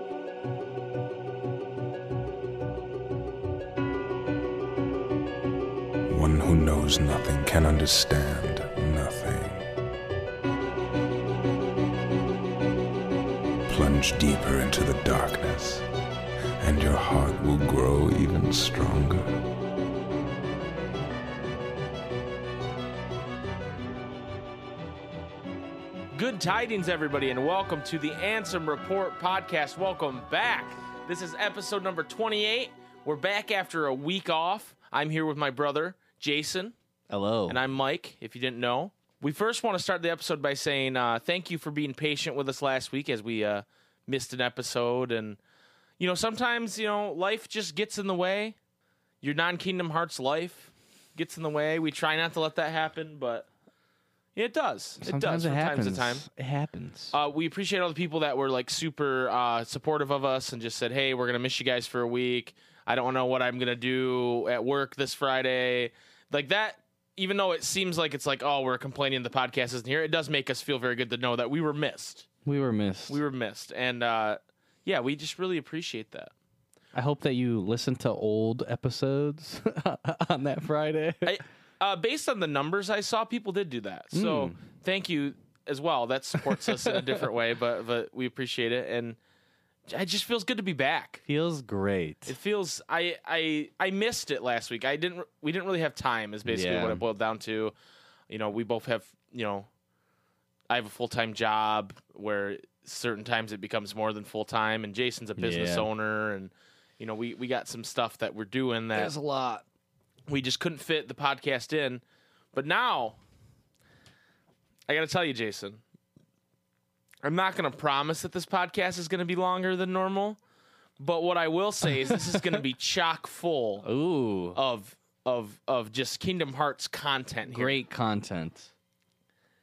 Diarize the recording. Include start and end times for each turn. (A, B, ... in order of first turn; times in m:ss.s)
0:06.1-0:09.7 A
0:13.7-0:15.8 A
0:16.6-0:19.3 A
0:26.2-0:36.7 B
0:37.1-0:37.6 C
0:37.5-0:45.4 B
0:46.0-0:48.6 B
0:49.2-0:53.5 B
0:54.4-0:56.2 B
0:55.0-0:57.1 C
0:57.1-1:12.3 B
1:12.5-1:13.2 C
1:13.1-1:16.3 B
1:16.9-1:21.4 C
1:21.2-1:29.2 B
1:24.1-1:24.6 C
1:26.4-1:27.3 C
1:29.9-1:31.2 B
1:31.3-1:32.4 C
1:32.3-1:37.7 B
1:36.4-1:37.0 C
1:38.3-1:39.7 B
1:40.7-1:49.1 B
1:45.4-1:45.9 C
1:48.9-1:49.6 C
1:50.3-1:52.0 B
1:52.5-1:53.2 B
1:54.9-1:55.8 B
1:57.2-2:00.4 B
2:01.0-2:03.9 B
2:02.0-2:02.6 C
2:03.8-2:04.6 C
2:04.5-2:07.8 B
2:07.5-2:08.7 C